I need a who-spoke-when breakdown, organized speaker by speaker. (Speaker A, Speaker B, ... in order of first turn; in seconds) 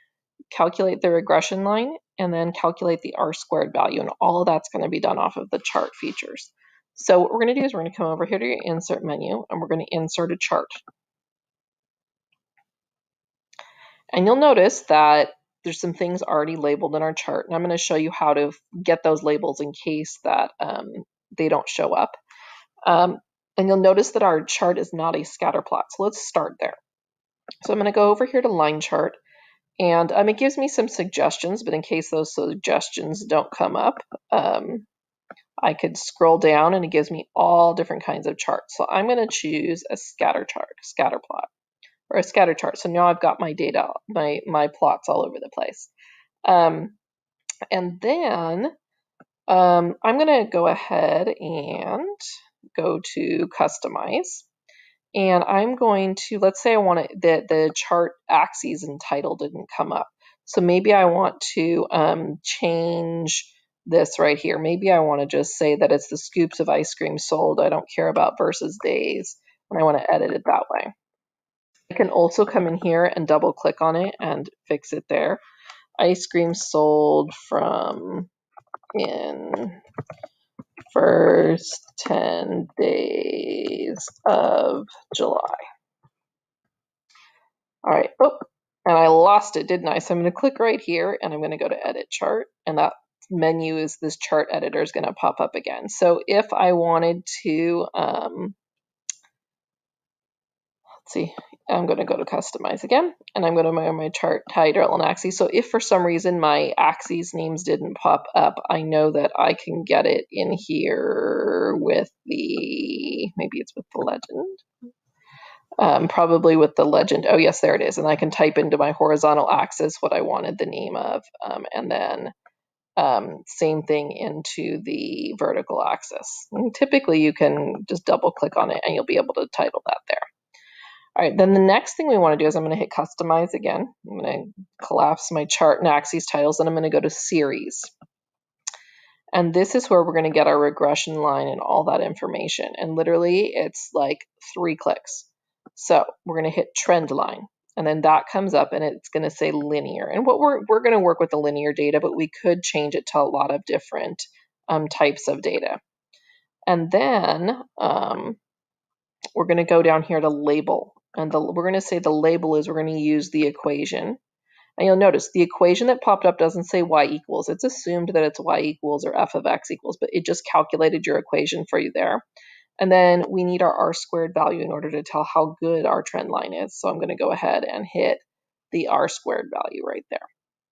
Speaker A: 0.5-10.8, 14.1-22.1, 22.9-26.8, 27.6-29.2, 29.8-34.9, 35.6-41.5, 42.1-45.9, 46.4-47.0, 47.7-48.7, 49.5-52.1, 52.7-54.5, 55.1-70.9, 71.9-75.4, 76.0-78.3, 78.9-79.8, 80.9-85.6, 87.8-98.5, 101.0-114.6, 115.8-122.3, 123.0-130.3, 131.2-137.9, 139.3-155.8, 156.7-158.4, 159.3-164.2, 164.8-172.2, 172.8-180.2